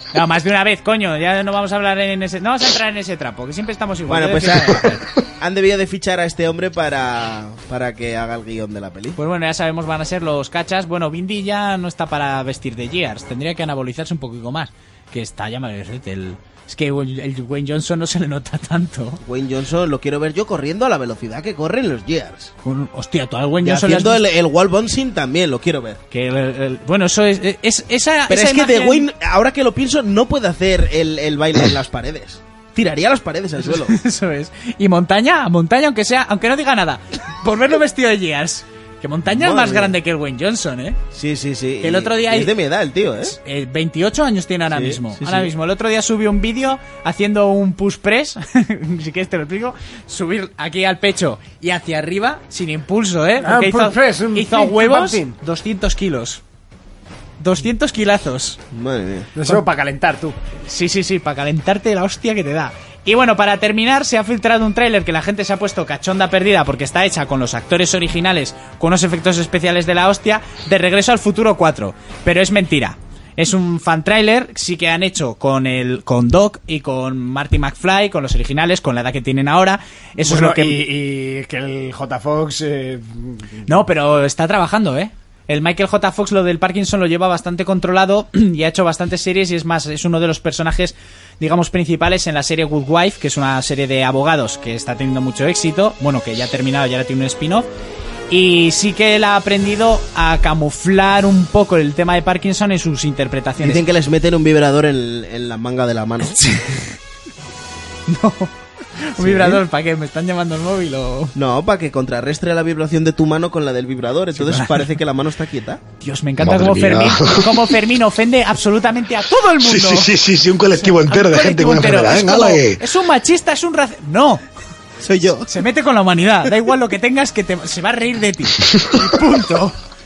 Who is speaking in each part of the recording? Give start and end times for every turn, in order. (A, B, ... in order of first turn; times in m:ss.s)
0:00.1-0:05.0 A
0:04.1-0:09.2 B
0:09.2-0:19.2 A
0:19.2-0:22.5 B
0:22.6-0:24.2 A
0:23.6-0:26.0 B
0:26.1-0:29.1 A
0:28.3-0:33.9 B
0:33.6-0:41.0 A
0:39.3-0:39.9 B
0:41.1-0:43.4 B
0:41.8-0:42.5 A
0:43.2-0:56.4 A
0:44.7-0:45.5 B
0:53.4-0:55.3 C
0:57.4-0:58.6 A
0:58.7-0:59.3 B
0:59.3-1:00.4 C
1:00.6-1:20.8 A
1:20.2-1:23.7 C
1:23.7-1:37.7 A
1:38.3-1:43.8 A
1:43.6-1:46.4 B
1:46.4-1:46.8 A
1:48.1-1:51.3 A
1:49.2-1:49.6 B
1:51.3-1:55.8 B
1:54.3-1:54.9 A
1:56.0-2:00.1 A
1:56.4-1:57.7 D
1:59.6-2:02.8 D
2:00.7-2:04.4 A
2:05.0-2:05.5 B
2:05.5-2:09.8 A